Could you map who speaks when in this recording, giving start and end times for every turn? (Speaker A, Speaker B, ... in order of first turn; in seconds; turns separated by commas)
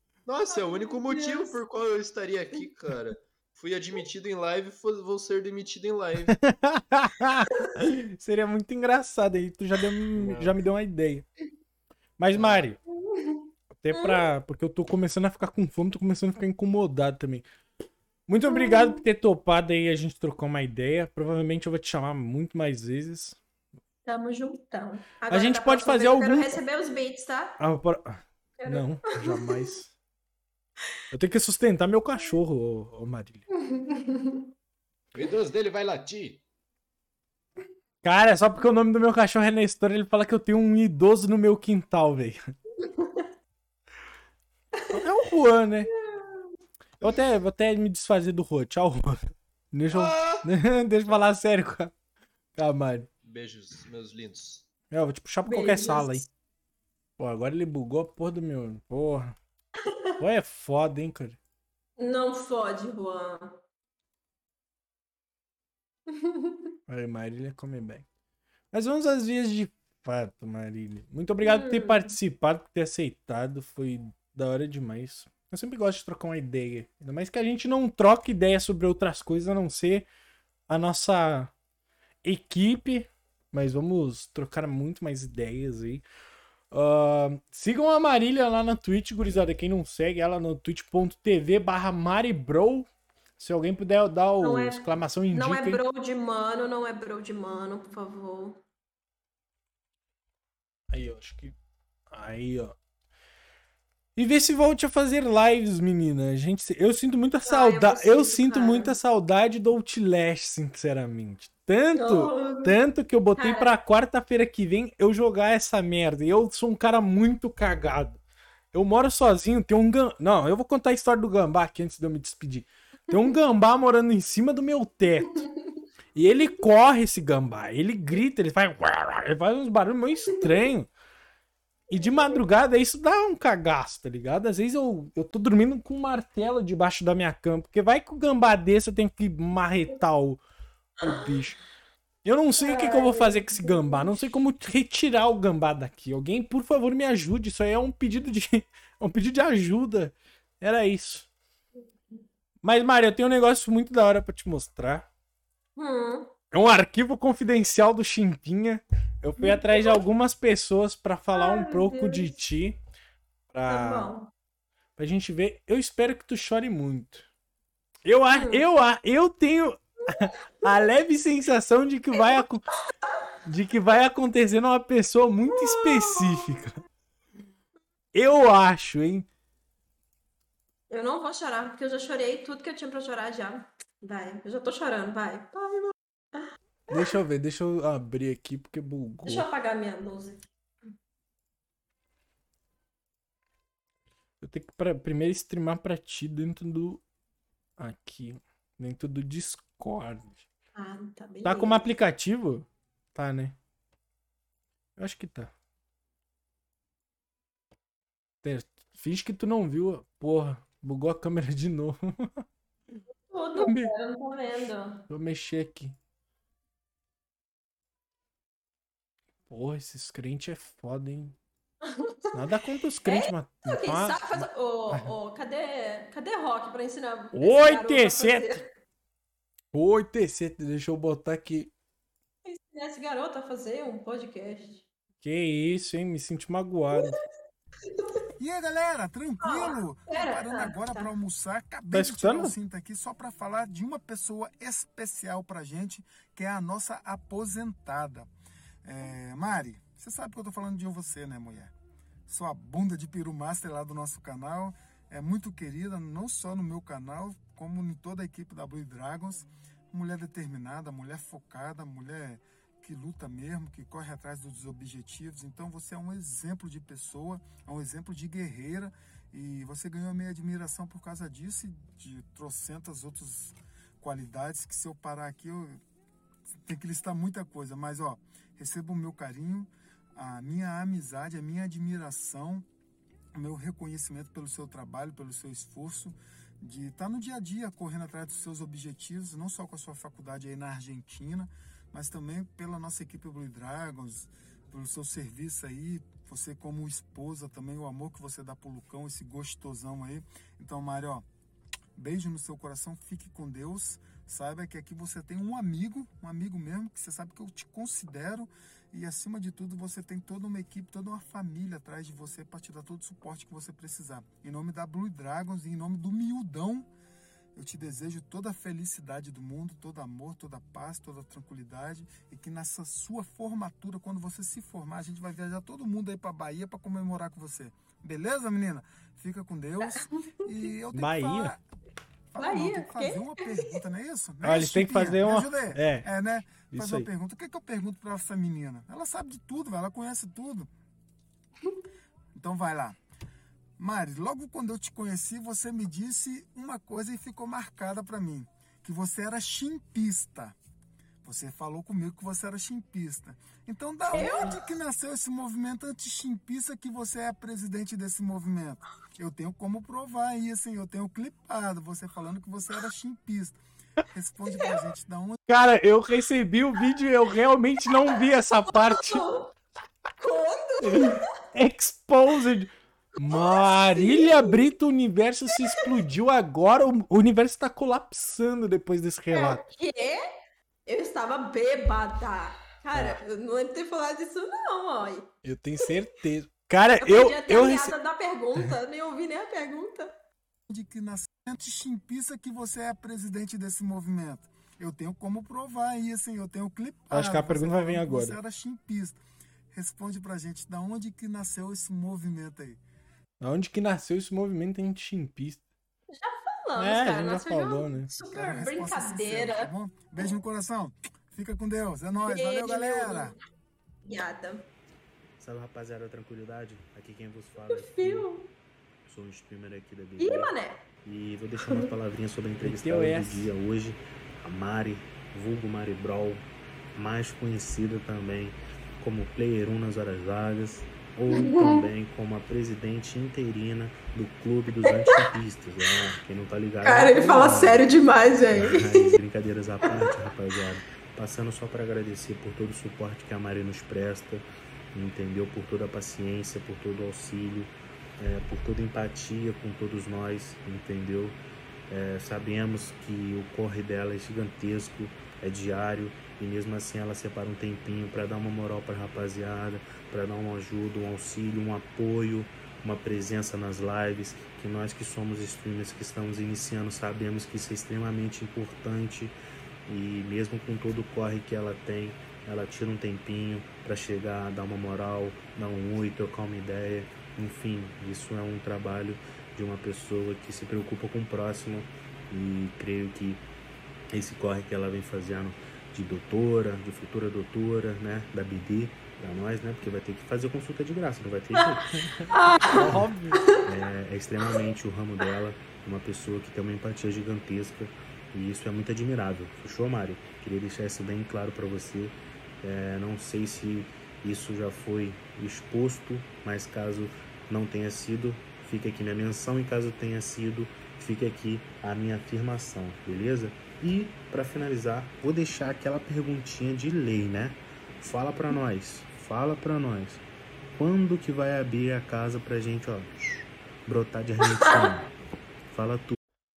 Speaker A: 0.3-6.4, Speaker B: 0.5-1.6, Speaker C: 6.3-11.2, Speaker A: 10.2-10.6, Speaker C: 12.2-12.8, Speaker A: 12.3-12.7, Speaker B: 13.0-14.2, Speaker C: 13.7-17.4, Speaker C: 18.3-23.4, Speaker B: 18.5-19.0, Speaker B: 24.1-27.6, Speaker C: 25.3-26.6, Speaker C: 27.6-29.9, Speaker B: 28.6-29.5, Speaker C: 31.1-33.4, Speaker B: 33.6-34.5, Speaker A: 35.1-36.4, Speaker C: 38.0-42.4, Speaker B: 42.8-43.3, Speaker C: 44.9-45.9, Speaker B: 45.9-46.5, Speaker C: 47.0-51.9, Speaker A: 49.9-50.5, Speaker C: 52.5-53.1, Speaker A: 53.2-54.7, Speaker C: 54.9-56.2, Speaker B: 55.5-56.2, Speaker C: 57.2-59.4, Speaker B: 59.9-60.2, Speaker C: 60.2-61.4, Speaker B: 62.0-63.6, Speaker B: 66.1-66.7, Speaker C: 66.9-68.0, Speaker C: 68.7-80.1, Speaker B: 71.4-72.1, Speaker C: 80.7-81.5, Speaker C: 82.2-86.0, Speaker C: 86.7-95.8, Speaker B: 94.4-98.6, Speaker C: 100.9-101.5, Speaker C: 102.1-102.8, Speaker C: 104.2-118.2, Speaker B: 107.5-109.0, Speaker B: 112.0-112.8, Speaker B: 113.4-113.8, Speaker C: 118.7-125.5, Speaker C: 126.2-130.9, Speaker C: 131.9-140.4, Speaker B: 131.9-132.4, Speaker C: 141.0-141.6, Speaker C: 142.2-151.3, Speaker B: 142.6-144.1, Speaker C: 152.6-155.1, Speaker B: 155.8-156.3, Speaker C: 156.5-162.8, Speaker B: 159.4-160.0, Speaker B: 161.3-162.4, Speaker C: 163.5-164.1, Speaker B: 163.7-164.3, Speaker C: 165.0-167.3, Speaker C: 168.1-172.6, Speaker B: 168.3-168.7, Speaker B: 172.1-172.4, Speaker C: 173.4-176.8, Speaker B: 175.5-176.6, Speaker C: 178.1-179.3, Speaker B: 180.9-187.1, Speaker C: 186.9-189.5, Speaker B: 189.2-190.5, Speaker C: 194.4-197.0, Speaker C: 197.8-200.4, Speaker B: 200.8-201.9, Speaker C: 201.4-203.6, Speaker C: 205.0-205.5, Speaker C: 208.4-212.4, Speaker B: 213.3-215.1, Speaker C: 213.6-213.9, Speaker C: 215.1-216.0, Speaker C: 219.5-221.4, Speaker B: 221.9-222.4, Speaker C: 222.3-225.1, Speaker B: 223.1-228.6, Speaker C: 227.3-228.6, Speaker C: 229.7-231.7, Speaker B: 232.4-234.8, Speaker C: 235.2-237.2, Speaker B: 237.9-238.2, Speaker D: 238.4-248.3, Speaker B: 239.4-241.1, Speaker C: 241.9-242.6, Speaker D: 248.8-251.7, Speaker D: 252.3-275.8, Speaker D: 276.5-282.7, Speaker D: 283.3-301.2, Speaker D: 302.0-316.9, Speaker D: 317.6-331.6, Speaker C: 330.9-331.6, Speaker D: 332.3-340.7, Speaker B: 332.4-333.8, Speaker C: 334.4-336.1, Speaker C: 336.7-337.1, Speaker D: 342.4-343.0, Speaker D: 343.8-350.6, Speaker D: 351.2-365.4, Speaker B: 354.1-354.6, Speaker C: 365.5-369.2, Speaker B: 368.1-369.5, Speaker B: 370.2-371.3, Speaker C: 370.8-379.7, Speaker B: 373.3-374.5, Speaker B: 379.3-380.2, Speaker B: 380.9-385.3, Speaker C: 382.9-383.2, Speaker C: 385.4-387.9, Speaker B: 387.0-390.1, Speaker D: 390.7-399.2, Speaker C: 397.1-398.4, Speaker D: 399.7-402.8, Speaker C: 403.4-405.6, Speaker B: 406.1-409.7, Speaker C: 406.8-408.1, Speaker D: 408.3-413.4, Speaker B: 412.3-413.3, Speaker B: 414.1-414.6, Speaker E: 415.4-418.3, Speaker B: 417.7-418.5, Speaker E: 419.1-437.9, Speaker B: 420.2-420.8, Speaker C: 422.6-423.5, Speaker B: 431.4-431.8, Speaker B: 434.9-435.1, Speaker B: 436.8-439.1, Speaker E: 438.5-469.4, Speaker E: 469.9-483.4, Speaker E: 484.1-491.9, Speaker C: 492.0-493.4, Speaker B: 492.3-492.9, Speaker E: 492.7-520.2, Speaker E: 520.8-523.1, Speaker E: 523.9-525.1, Speaker E: 525.7-526.2